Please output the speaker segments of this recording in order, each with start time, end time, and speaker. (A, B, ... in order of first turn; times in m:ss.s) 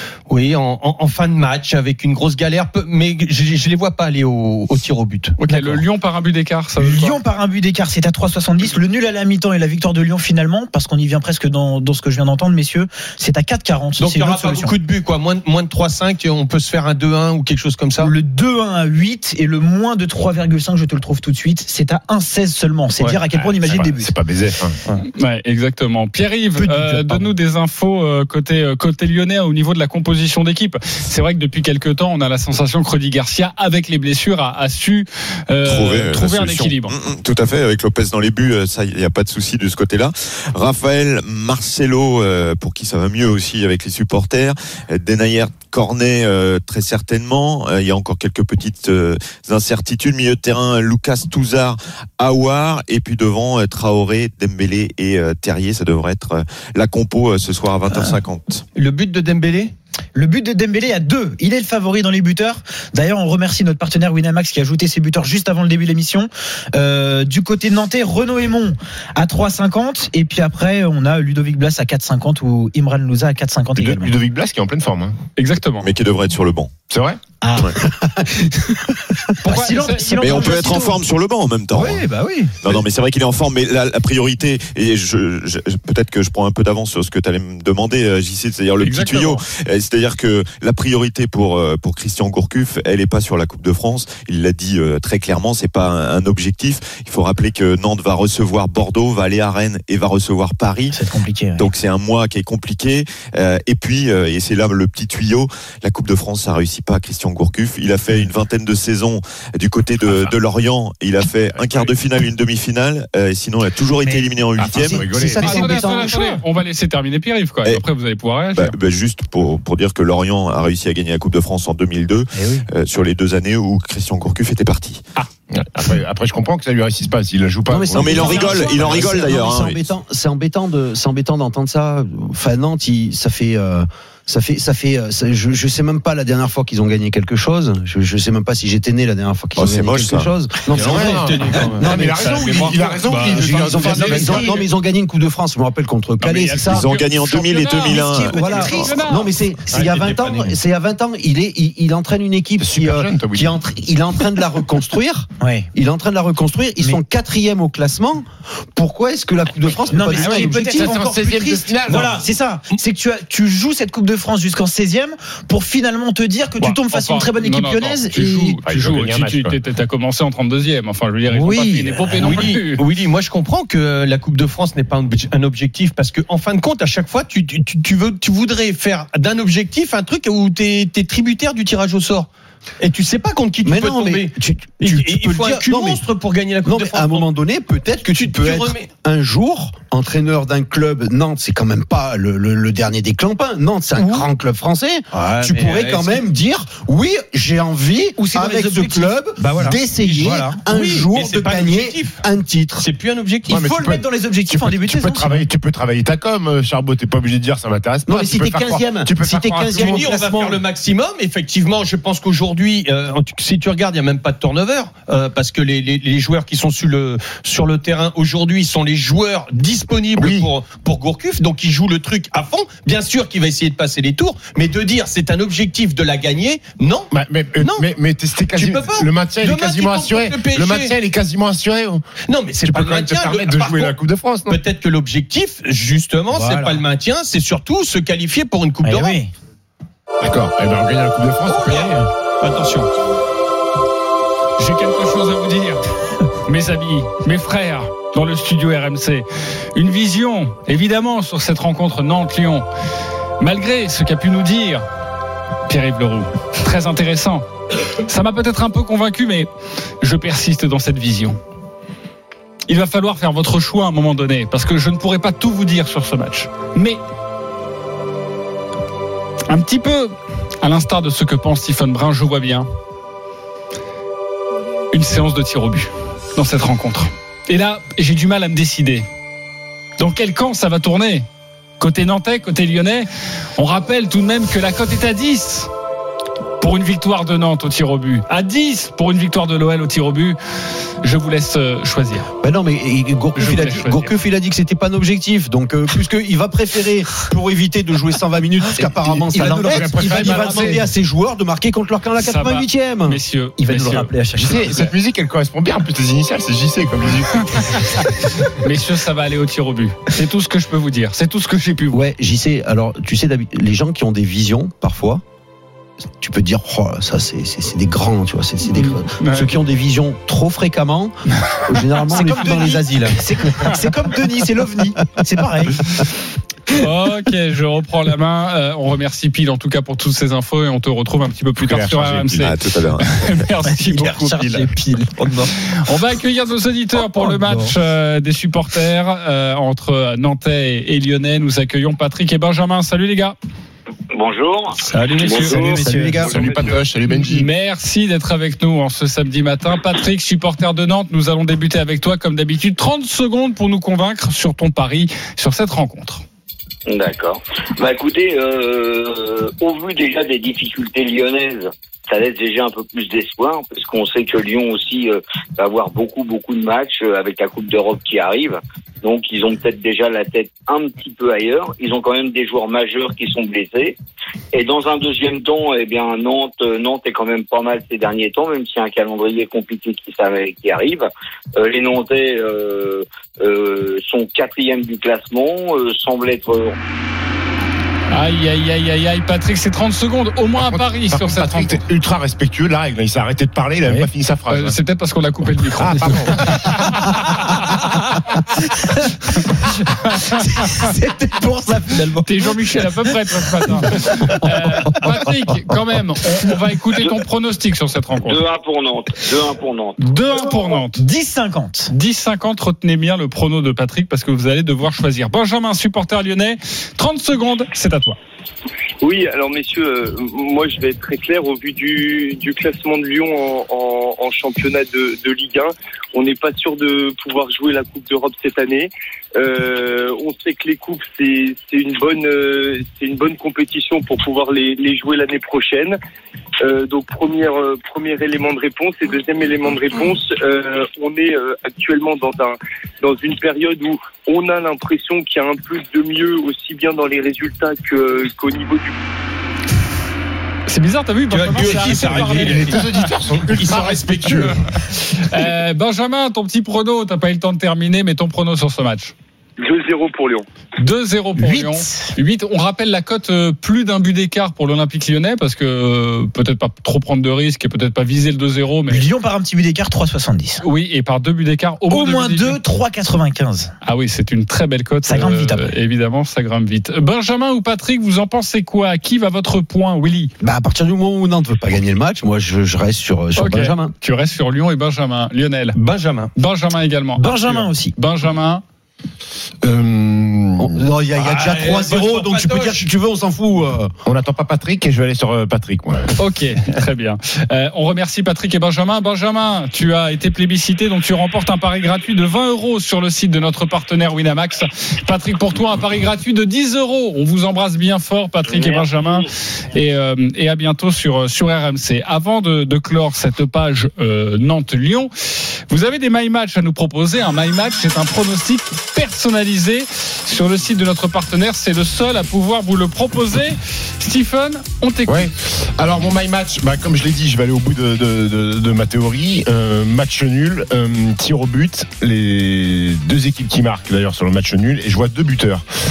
0:00.3-0:05.8 A
0:05.4-0:07.2 B
0:06.8-0:14.7 C
0:14.0-0:18.1 A
0:18.0-0:24.1 C
0:23.5-0:24.8 D
0:25.1-0:37.0 B
0:26.6-0:27.2 A
0:35.6-0:58.6 E
0:58.7-0:59.7 A
1:00.1-1:14.1 C
1:13.8-1:15.2 D
1:15.4-1:15.9 B
1:15.8-1:16.7 E
1:16.9-1:17.2 D
1:17.4-1:17.8 C
1:17.8-1:18.5 F
1:19.4-1:21.0 C
1:19.4-1:20.7 B
1:20.2-1:22.1 E
1:21.7-1:22.5 C
1:22.6-1:41.0 E
1:28.8-1:29.4 B
1:40.9-1:41.7 C
1:41.6-1:55.1 E
1:50.0-1:50.3 D
1:51.6-1:51.9 D
1:54.0-1:54.3 C
1:54.6-1:55.8 D
1:54.9-1:56.2 F
1:55.4-1:58.7 B
1:55.5-1:56.2 C
1:58.5-2:05.0 E
2:02.3-2:02.6 C
2:05.5-2:09.2 D
2:07.7-2:26.9 F
2:07.9-2:09.8 E
2:08.2-2:09.4 C
2:19.6-2:20.3 E
2:20.7-2:24.6 D
2:20.7-2:24.5 A
2:23.8-2:24.4 B
2:26.2-2:29.3 B
2:26.7-2:29.0 E
2:27.8-2:29.0 C
2:28.3-2:41.0 F
2:29.7-2:30.6 A
2:32.6-2:33.5 D
2:35.4-2:35.7 C
2:39.9-2:48.6 C
2:40.6-2:42.1 D
2:46.6-2:52.8 B
2:48.6-2:49.6 D
2:51.3-3:02.3 A
3:02.8-3:07.3 A
3:03.6-3:06.0 F
3:06.6-3:22.8 F
3:08.1-3:08.9 A
3:15.2-3:16.2 A
3:18.2-3:20.6 C
3:20.7-3:22.2 A
3:22.8-3:23.6 A
3:23.5-3:30.2 D
3:23.5-3:25.4 C
3:28.1-3:30.6 F
3:29.7-3:47.9 A
3:40.2-3:40.5 D
3:47.1-3:52.0 D
3:48.5-3:51.0 A
3:52.3-3:54.0 A
3:52.6-3:54.6 D
3:54.5-3:59.2 A
3:56.3-3:56.8 C
3:58.8-3:59.3 C
4:00.2-4:02.0 D
4:01.4-4:02.9 A
4:04.6-4:05.8 B
4:06.4-4:12.6 B
4:13.4-4:14.8 B
4:15.7-4:17.4 B
4:18.1-4:19.5 B
4:20.0-4:21.4 B
4:22.7-4:27.0 B
4:29.5-4:32.7 B
4:34.9-4:39.1 B
4:40.0-4:41.3 B
4:41.8-4:45.7 B
4:46.6-4:50.4 B
4:51.0-4:52.3 B
4:52.4-5:04.0 F
4:53.4-4:54.1 B
4:59.0-5:00.8 D
4:59.3-5:00.8 C
4:59.5-5:00.3 A
5:02.2-5:04.1 B
5:03.6-5:04.9 C
5:04.3-5:08.1 D
5:07.9-5:12.0 B
5:11.9-5:15.2 F
5:16.2-5:23.2 F
5:18.7-5:19.6 B
5:22.1-5:26.0 C
5:22.6-5:23.1 A
5:26.7-5:34.7 B
5:31.6-5:32.5 D
5:32.4-5:33.1 E
5:33.7-5:35.5 C
5:35.8-5:43.4 B
5:44.1-5:46.8 G
5:44.9-5:46.2 A
5:45.2-5:45.8 B
5:45.3-5:46.7 F
5:46.2-5:47.5 D
5:47.1-5:56.2 B
5:56.9-6:14.0 G
6:14.5-6:21.0 G
6:21.6-6:26.8 G
6:28.1-6:31.8 B
6:30.6-6:34.8 D
6:34.5-6:37.8 B
6:35.8-6:37.1 D
6:40.0-6:40.9 B
6:40.4-6:43.1 C
6:42.2-6:48.4 B
6:43.6-6:45.3 C
6:48.2-6:50.0 G
6:50.0-6:51.0 B
6:50.6-6:51.9 C
6:51.9-6:58.2 B
6:59.0-7:16.0 H
7:16.6-7:29.0 H
7:30.7-7:32.8 B
7:31.3-7:34.6 A
7:31.6-7:34.5 D
7:35.1-7:39.1 B
7:39.6-7:40.4 H
7:40.8-7:49.0 B
7:41.4-7:42.1 C
7:48.9-7:50.6 C
7:50.6-7:52.6 B
7:51.9-7:53.7 C
7:53.8-8:00.3 B
7:55.0-7:55.7 C
8:00.4-8:03.9 F
8:03.4-8:05.8 B
8:05.7-8:06.3 A
8:06.3-8:08.6 B
8:07.2-8:07.9 C
8:09.6-8:10.8 D
8:10.6-8:13.9 F
8:11.2-8:12.8 A
8:14.0-8:16.1 D
8:16.2-8:35.1 B
8:35.7-8:45.3 B
8:45.1-8:55.6 D